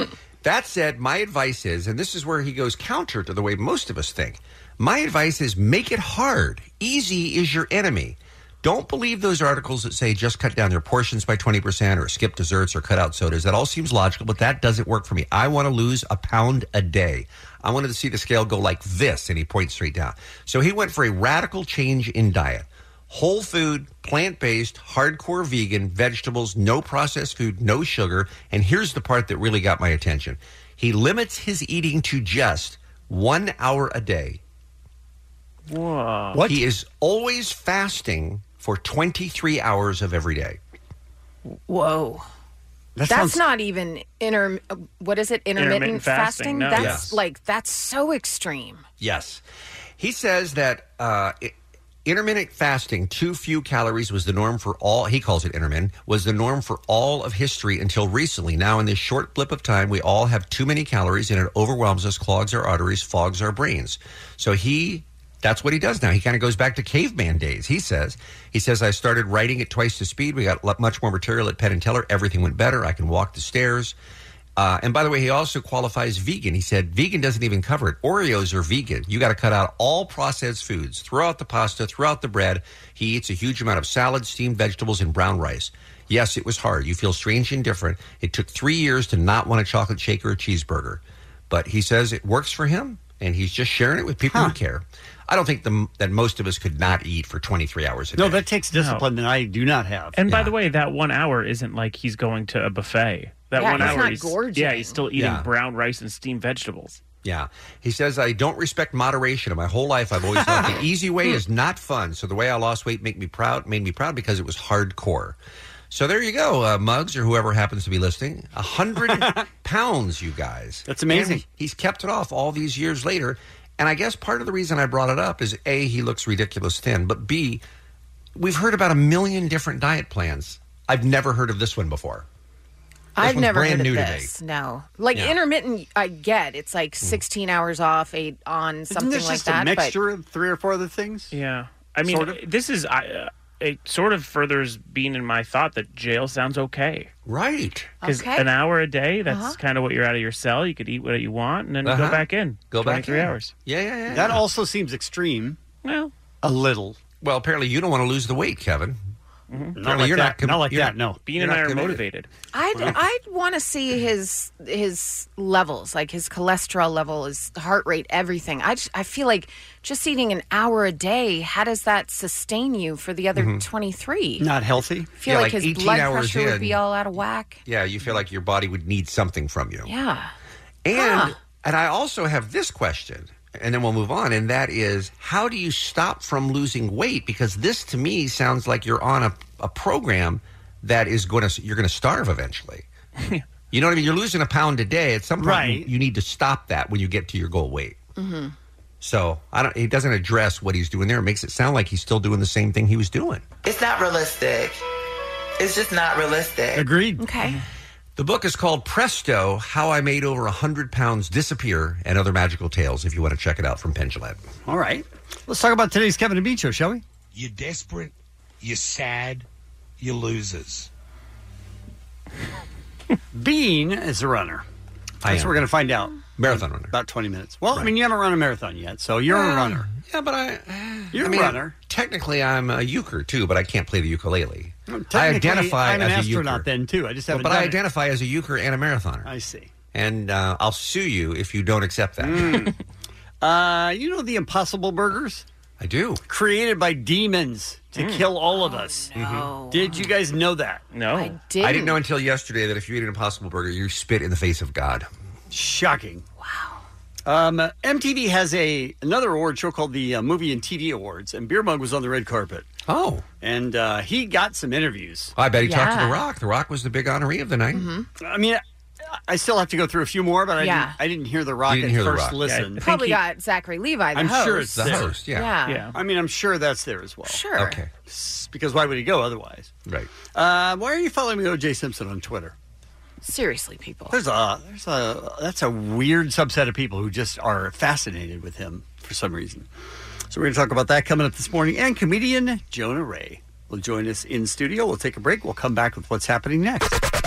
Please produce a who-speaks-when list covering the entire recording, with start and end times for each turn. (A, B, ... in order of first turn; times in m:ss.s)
0:00.4-0:34.4 A
0:35.7-0:36.4 B
0:36.3-0:36.6 C
0:36.4-0:40.6 A
0:41.7-0:42.2 D
0:42.9-0:43.4 C
0:43.1-0:48.8 D
0:45.6-0:47.1 B
0:46.7-0:47.2 A
0:49.0-0:49.4 A
0:50.0-1:13.9 A
1:14.6-1:38.4 A
1:34.3-1:34.6 C
1:38.2-1:40.2 C
1:38.7-1:39.1 B
1:40.2-1:47.0 B
1:40.3-1:40.5 A
1:43.5-1:45.0 D
1:43.7-1:44.0 A
1:45.1-1:45.5 A
1:47.2-1:55.4 A
1:50.4-1:50.8 C
1:55.9-2:07.6 A
1:59.0-1:59.4 C
2:00.9-2:01.4 C
2:08.4-2:12.2 A
2:13.2-2:20.0 D
2:13.2-2:14.3 A
2:18.9-2:21.3 C
2:21.3-2:27.1 B
2:22.0-2:22.4 C
2:27.2-2:27.9 A
2:28.0-2:28.4 D
2:28.0-2:33.5 B
2:29.3-2:29.6 D
2:31.8-2:34.4 A
2:34.1-2:35.6 C
2:35.8-2:36.1 B
2:36.4-2:37.0 C
2:37.2-2:39.0 A
2:39.5-2:39.8 B
2:39.8-2:41.2 C
2:39.8-2:42.0 A
2:41.2-2:42.3 B
2:42.5-2:54.5 D
2:42.7-2:43.0 C
2:53.3-2:53.6 A
2:54.4-2:55.1 C
2:55.2-2:57.6 D
2:55.2-2:56.8 A
2:57.6-2:59.9 A
2:59.8-3:00.3 D
3:00.8-3:12.8 A
3:00.9-3:01.3 D
3:13.7-3:18.0 A
3:15.4-3:15.9 C
3:18.2-3:18.5 D
3:19.0-3:23.4 A
3:23.6-3:24.8 E
3:25.6-3:26.9 E
3:26.7-3:27.2 C
3:27.2-3:27.6 D
3:28.2-3:34.4 A
3:34.6-3:37.0 C
3:37.3-3:38.1 F
3:38.6-3:39.4 F
3:40.0-3:40.9 F
3:43.3-3:44.6 C
3:45.2-3:45.6 A
3:45.2-3:49.9 C
3:46.4-3:46.9 A
3:49.3-3:56.7 A
3:51.1-3:51.7 C
3:54.9-3:57.8 C
3:57.3-3:59.3 A
3:59.2-3:59.7 C
3:59.9-4:02.7 A
4:02.2-4:02.8 C
4:03.4-4:05.4 C
4:05.8-4:06.2 A
4:06.3-4:10.8 C
4:08.0-4:08.3 B
4:08.5-4:10.0 D
4:09.1-4:09.5 A
4:10.9-4:11.4 B
4:11.1-4:12.0 D
4:11.6-4:15.1 A
4:15.5-4:16.2 C
4:16.4-4:16.8 D
4:17.2-4:22.7 C
4:22.8-4:23.2 A
4:23.4-4:25.3 C
4:25.4-4:27.9 A
4:25.6-4:26.2 D
4:27.7-4:28.1 D
4:28.2-4:32.8 C
4:30.6-4:31.0 D
4:31.7-4:32.4 A
4:32.4-4:33.2 B
4:32.8-4:35.9 D
4:34.1-4:35.1 C
4:34.8-4:35.6 A
4:35.6-4:36.0 B
4:35.9-4:37.4 C
4:37.2-4:37.8 D
4:37.5-4:37.9 A
4:38.0-4:39.7 C
4:39.8-4:40.1 A
4:40.3-4:42.5 C
4:43.2-4:44.2 D
4:44.1-4:49.7 C
4:50.3-4:57.0 C